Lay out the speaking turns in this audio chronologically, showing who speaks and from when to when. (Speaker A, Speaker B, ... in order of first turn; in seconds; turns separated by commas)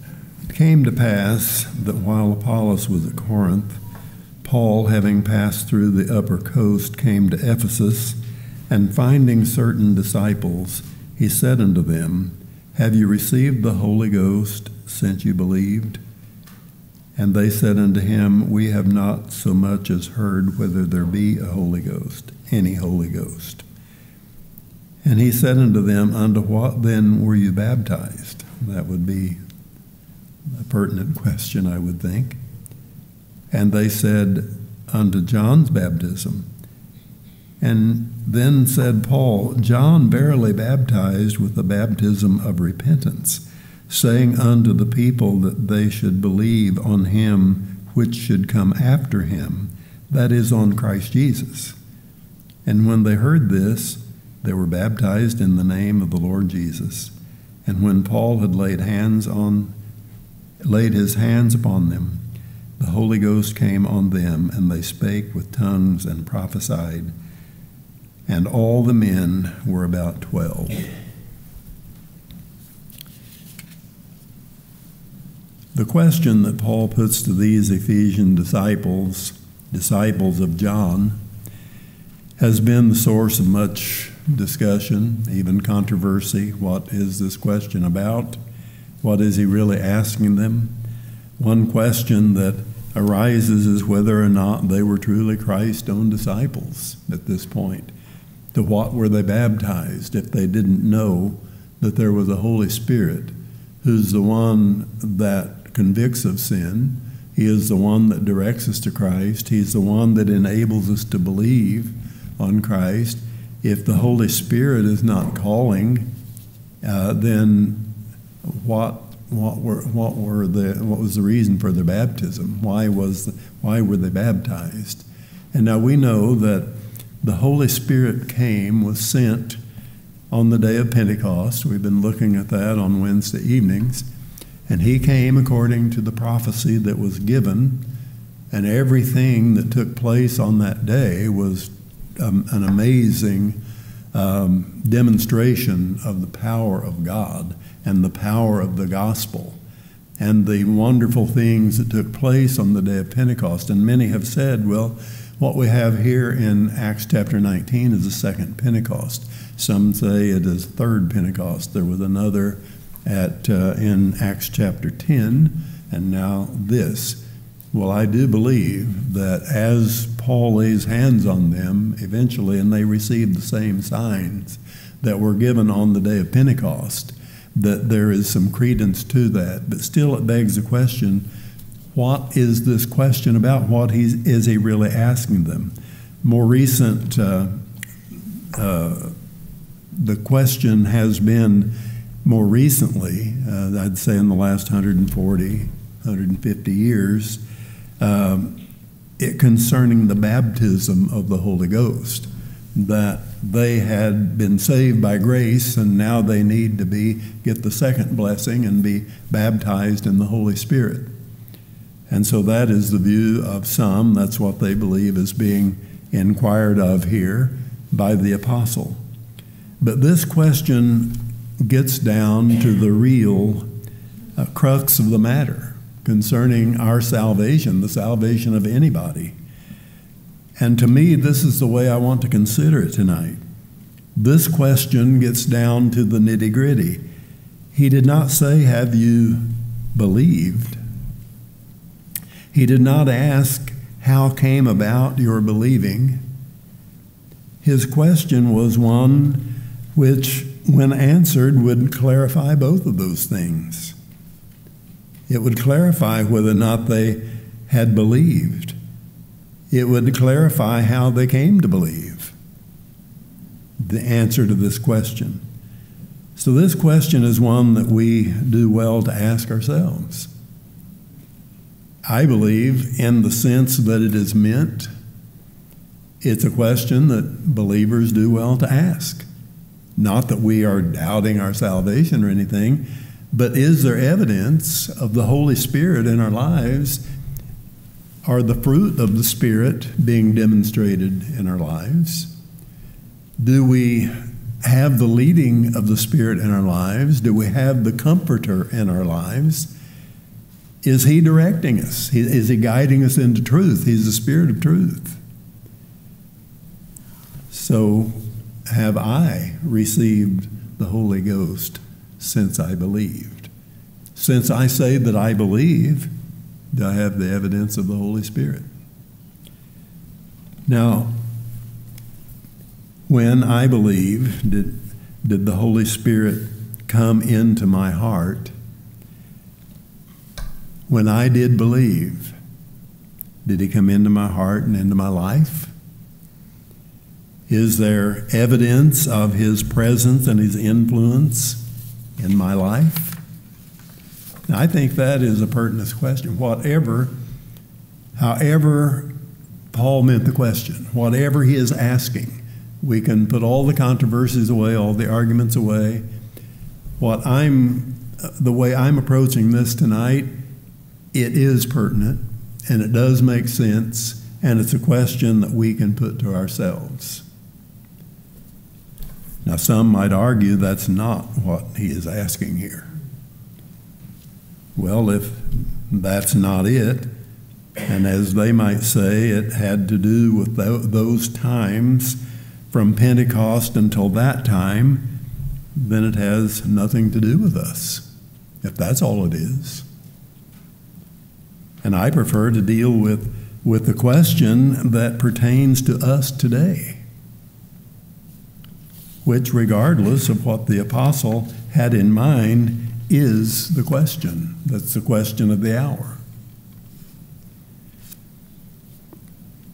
Speaker A: 0.5-3.8, Speaker A: 4.4-8.2, Speaker A: 8.7-16.0, Speaker A: 17.2-23.6, Speaker A: 25.0-29.4, Speaker A: 30.6-32.4, Speaker A: 33.5-36.5, Speaker A: 37.6-51.8, Speaker A: 52.6-57.1, Speaker A: 57.7-59.7, Speaker A: 60.6-62.2, Speaker A: 62.8-67.1, Speaker A: 68.3-70.8, Speaker A: 75.7-81.2, Speaker A: 82.4-88.4, Speaker A: 89.0-90.7, Speaker A: 91.4-97.9, Speaker A: 98.5-116.1, Speaker A: 116.8-117.9, Speaker A: 118.5-126.7, Speaker A: 127.2-129.6, Speaker A: 130.3-134.1, Speaker A: 134.7-137.8, Speaker A: 138.5-143.6, Speaker A: 144.1-149.6, Speaker A: 150.2-167.2, Speaker A: 167.7-181.3, Speaker A: 181.9-187.5, Speaker A: 188.5-189.2, Speaker A: 190.0-197.4, Speaker A: 198.0-198.6, Speaker A: 199.2-211.1, Speaker A: 212.1-219.0, Speaker A: 219.8-223.7, Speaker A: 224.4-229.4, Speaker A: 230.6-233.4, Speaker A: 234.2-237.0, Speaker A: 237.7-240.8, Speaker A: 242.5-246.2, Speaker A: 247.6-253.9, Speaker A: 255.3-258.8, Speaker A: 259.7-262.4, Speaker A: 263.8-265.4, Speaker A: 266.4-270.3, Speaker A: 272.1-274.9, Speaker A: 276.2-279.3, Speaker A: 280.0-287.0, Speaker A: 288.2-292.3, Speaker A: 293.4-299.7, Speaker A: 300.8-305.2, Speaker A: 307.5-313.5, Speaker A: 314.1-316.1, Speaker A: 316.7-318.7, Speaker A: 320.7-321.1, Speaker A: 323.1-328.5, Speaker A: 330.9-332.4, Speaker A: 333.4-335.7, Speaker A: 337.5-341.6, Speaker A: 342.2-343.2, Speaker A: 344.5-347.1, Speaker A: 348.2-349.1, Speaker A: 349.7-356.1, Speaker A: 357.0-360.3, Speaker A: 361.1-367.2, Speaker A: 369.4-372.9, Speaker A: 374.8-377.1, Speaker A: 377.9-382.2, Speaker A: 382.7-385.1, Speaker A: 385.8-388.1, Speaker A: 388.6-389.9, Speaker A: 391.8-397.0, Speaker A: 399.2-406.2